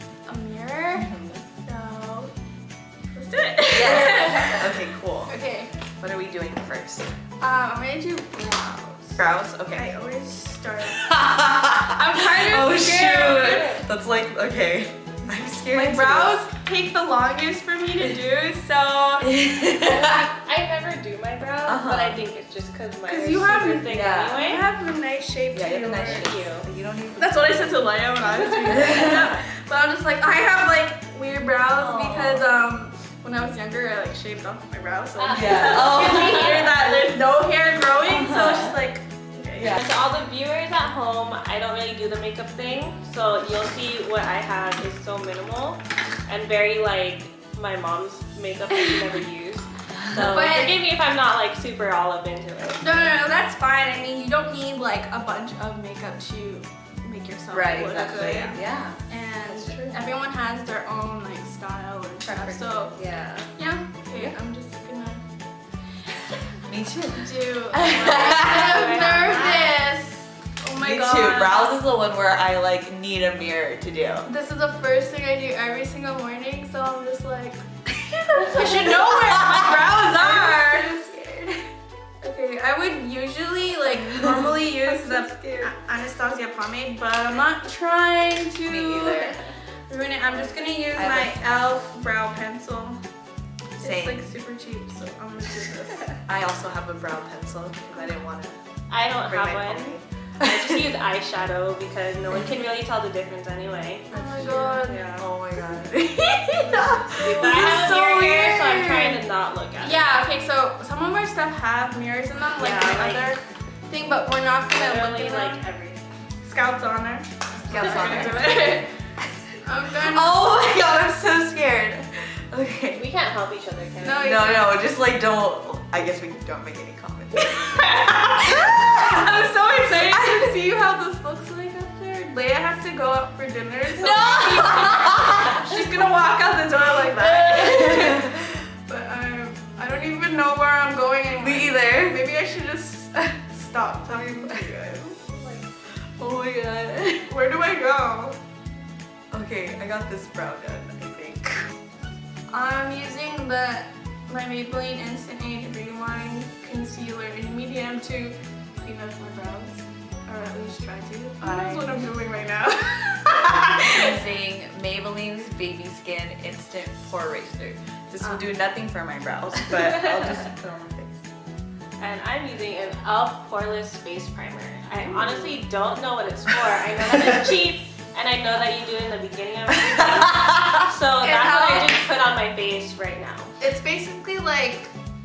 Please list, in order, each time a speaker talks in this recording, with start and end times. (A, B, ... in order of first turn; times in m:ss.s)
0:00.2-0:02.3 A
0:00.9-0:01.3 B
0:03.1-0:05.7 A
0:03.7-0:05.4 B
0:06.0-0:07.1 B
0:07.4-0:11.2 A
0:09.2-0:09.9 B
0:11.0-0:16.4 B
0:11.8-0:13.8 A
0:15.7-0:19.3 A
0:19.2-0:20.2 B
0:19.8-0:24.6 C
0:21.6-0:22.2 B
0:23.1-0:26.3 A
0:23.9-0:24.4 B
0:25.5-0:27.7 B
0:26.0-0:26.7 C
0:27.2-0:39.8 A
0:28.8-0:29.2 B
0:31.8-0:32.2 B
0:32.0-0:32.4 C
0:35.2-0:37.0 C
0:35.3-0:36.5 B
0:38.1-0:38.7 B
0:39.5-0:39.8 B
0:39.7-0:53.0 C
0:48.7-0:49.0 A
0:50.1-0:50.8 A
0:52.8-1:03.0 A
0:57.5-1:00.0 B
1:02.2-1:02.9 B
1:02.9-1:03.5 C
1:03.5-1:05.2 A
1:06.6-1:08.8 B
1:07.2-1:11.7 A
1:08.1-1:09.8 C
1:10.8-1:14.3 B
1:14.2-1:17.6 A
1:18.1-1:20.9 B
1:18.4-1:21.6 A
1:22.2-1:33.0 A
1:23.8-1:25.7 B
1:28.6-1:29.4 B
1:30.9-1:31.4 B
1:33.8-1:36.2 A
1:33.8-1:34.3 B
1:36.3-1:38.6 B
1:38.9-1:45.2 C
1:39.2-1:40.6 B
1:44.1-1:45.0 A
1:44.1-1:48.9 B
1:45.6-1:49.2 A
1:47.2-1:50.1 C
1:49.8-1:55.6 A
1:52.6-1:53.3 C
1:54.7-1:56.0 C
1:56.4-1:58.9 A
1:57.6-1:58.7 B
1:59.6-2:00.5 A
2:00.0-2:03.0 B
2:02.9-2:04.3 C
2:04.0-2:04.8 A
2:04.2-2:09.3 B
2:08.3-2:25.6 A
2:09.9-2:10.4 B
2:14.0-2:15.6 B
2:16.7-2:18.4 B
2:21.4-2:22.2 B
2:23.7-2:24.7 B
2:26.2-2:27.3 B
2:27.2-2:28.4 A
2:29.3-2:31.7 B
2:32.5-2:44.1 A
2:41.4-2:41.8 B
2:43.8-2:51.3 B
2:52.0-3:03.5 C
2:55.0-2:55.6 A
3:01.2-3:01.9 A
3:03.6-3:04.9 A